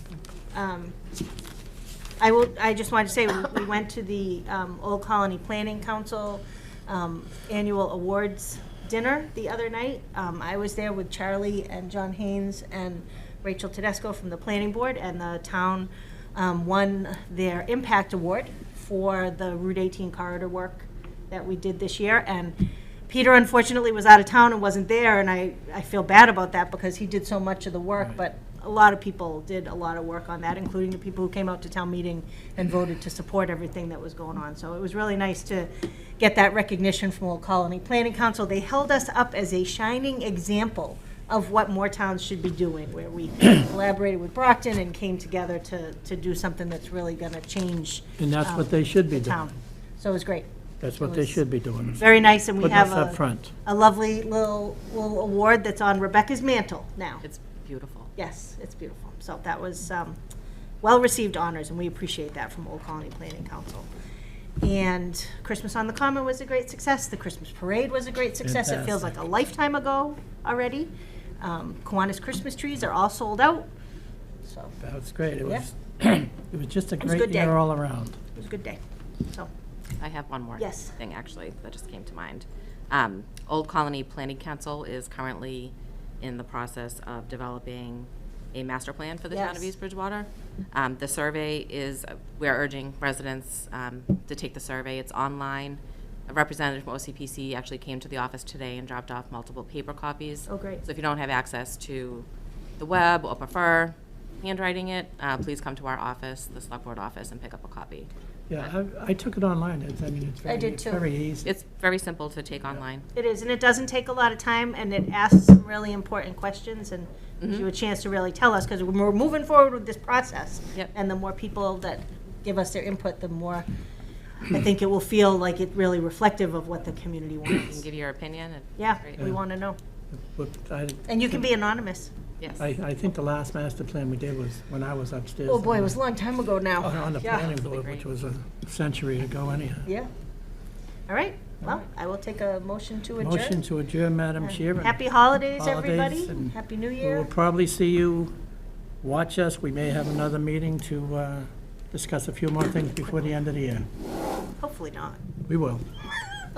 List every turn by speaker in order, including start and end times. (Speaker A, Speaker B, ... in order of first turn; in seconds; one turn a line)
Speaker A: 0.5-1.0
Speaker A: 2.2-51.4
Speaker B: 48.2-49.4
Speaker B: 50.8-53.5
Speaker A: 52.0-57.2
Speaker C: 57.2-58.1
Speaker A: 58.2-60.2
Speaker A: 60.8-63.9
Speaker A: 64.6-73.7
Speaker B: 68.4-69.1
Speaker A: 74.4-74.7
Speaker B: 74.8-78.2
Speaker A: 77.0-77.6
Speaker A: 78.3-79.5
Speaker C: 80.0-102.3
Speaker A: 80.6-81.0
Speaker A: 89.3-89.7
Speaker A: 100.5-100.8
Speaker C: 102.8-108.1
Speaker B: 108.5-111.5
Speaker A: 110.5-111.0
Speaker C: 111.5-113.1
Speaker A: 113.2-123.7
Speaker A: 124.5-127.8
Speaker C: 127.6-129.2
Speaker A: 128.8-129.8
Speaker B: 130.2-131.4
Speaker A: 131.1-132.1
Speaker C: 132.4-132.7
Speaker B: 132.6-136.0
Speaker A: 135.5-137.6
Speaker B: 136.8-139.9
Speaker C: 137.7-138.1
Speaker A: 141.1-143.6
Speaker B: 143.2-148.3
Speaker A: 144.4-147.3
Speaker B: 149.0-153.9
Speaker A: 154.6-155.2
Speaker B: 155.5-155.9